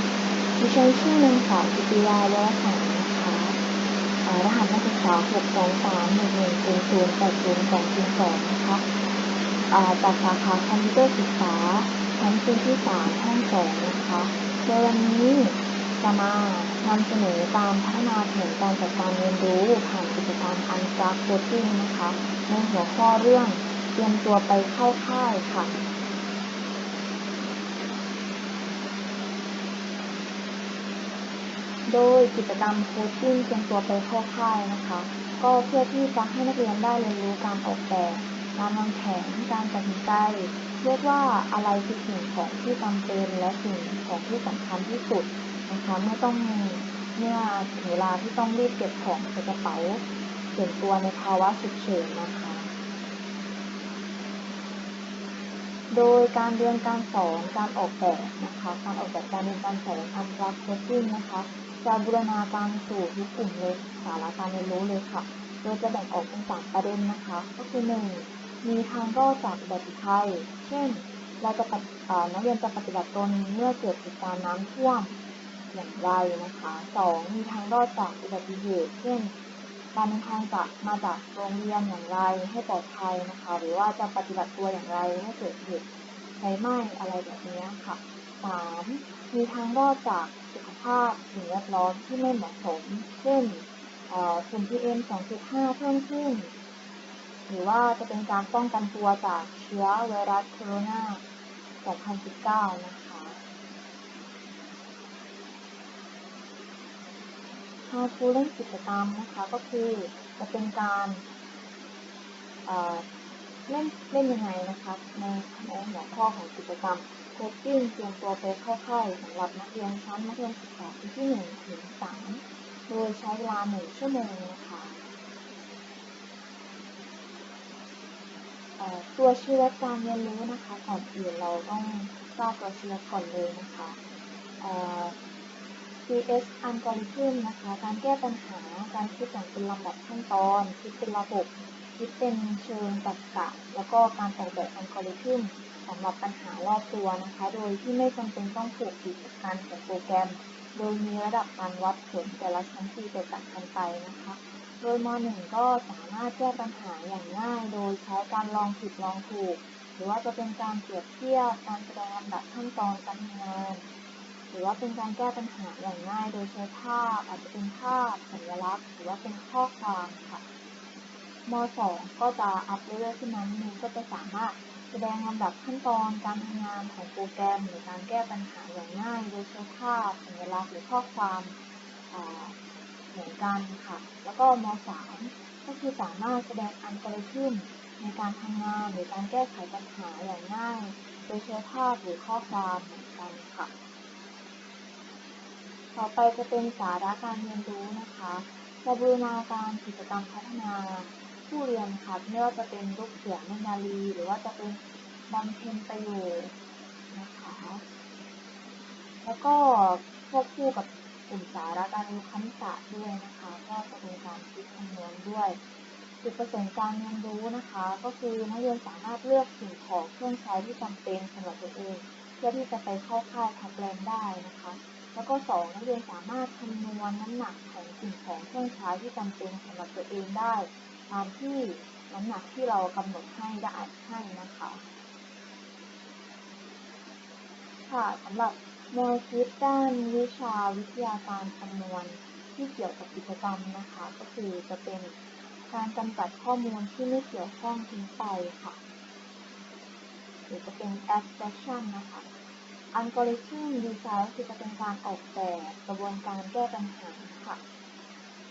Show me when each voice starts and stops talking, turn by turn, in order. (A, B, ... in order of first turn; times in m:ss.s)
0:00.6-0:03.6 A
0:04.2-0:08.8 A
0:09.7-0:25.8 A
0:31.9-0:50.0 A
0:50.5-0:52.7 A
0:55.9-1:15.2 A
1:15.7-1:19.3 A
1:19.9-1:25.8 A
1:26.4-1:36.5 A
1:37.5-1:41.2 A
1:41.8-1:43.4 A
1:47.9-1:51.2 A
1:52.6-1:53.0 A
1:53.7-2:05.0 A
2:08.8-2:14.0 A
2:14.6-2:15.2 A
2:16.1-2:43.8 A
2:44.5-2:50.4 A
2:51.5-3:01.5 A
3:02.1-3:02.6 A
3:03.1-3:13.7 A
3:15.9-3:26.5 A
3:27.1-3:27.8 A
3:29.2-3:35.6 A
3:36.2-3:54.8 A
3:57.9-4:05.2 A
4:05.7-4:08.8 A
4:10.5-4:12.3 A
4:12.9-4:17.6 A